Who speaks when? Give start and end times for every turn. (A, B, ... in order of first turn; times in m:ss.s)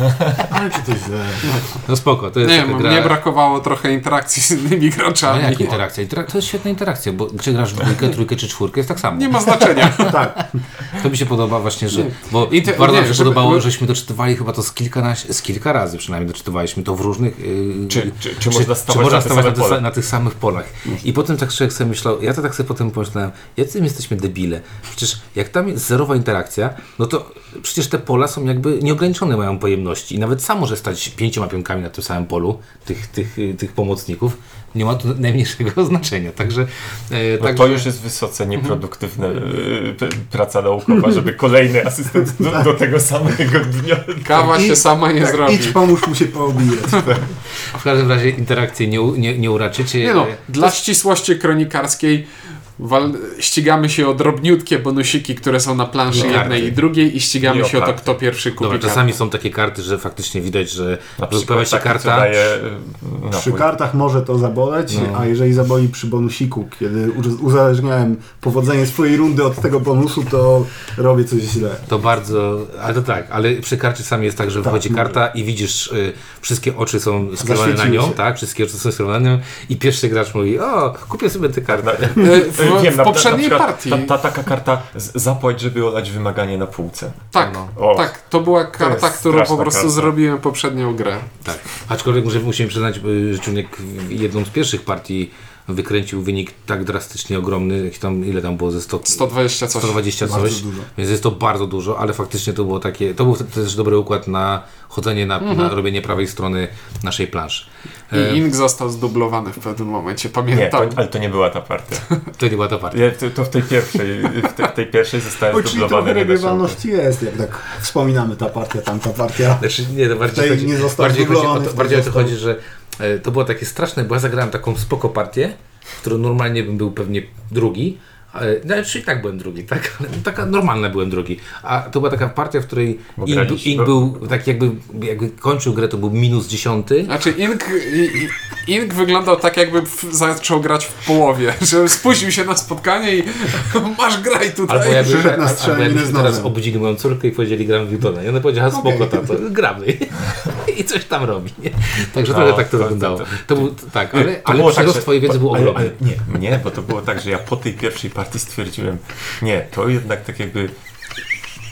0:00.5-0:01.6 A
0:01.9-0:03.2 B
0:02.4-0:05.8 C
0:05.3-0:10.2 B
0:09.1-0:10.2 C
0:10.1-0:10.5 A
0:10.9-0:37.9 B
0:11.9-0:13.6 C
0:17.9-0:19.8 D
0:37.4-0:44.8 D
0:42.4-0:42.7 A
0:44.2-0:45.8 C
0:45.2-0:47.3 A
0:47.6-0:50.8 B
0:50.0-0:59.2 C
0:56.1-0:56.8 B
0:56.2-0:56.7 D
0:57.4-0:58.2 D
0:58.6-1:02.5 B
1:01.2-1:03.7 D
1:03.3-1:11.8 A
1:04.9-1:05.3 B
1:11.9-1:22.3 B
1:14.6-1:15.2 A
1:17.4-1:18.2 A
1:21.7-1:28.1 D
1:22.2-1:24.1 C
1:27.3-1:31.3 C
1:27.4-1:27.7 B
1:28.8-1:30.1 D
1:31.4-1:48.4 B
1:39.1-1:40.0 C
1:40.2-1:40.9 A
1:45.4-1:45.7 C
1:48.1-1:51.0 C
1:50.5-1:52.2 D
1:52.4-1:53.0 B
1:52.9-1:56.8 D
1:55.5-1:59.6 A
1:59.6-2:17.1 B
2:00.3-2:02.4 A
2:13.2-2:14.0 D
2:17.1-2:25.4 C
2:24.7-2:36.0 B
2:24.9-2:26.5 A
2:28.7-2:29.4 A
2:32.3-2:40.7 D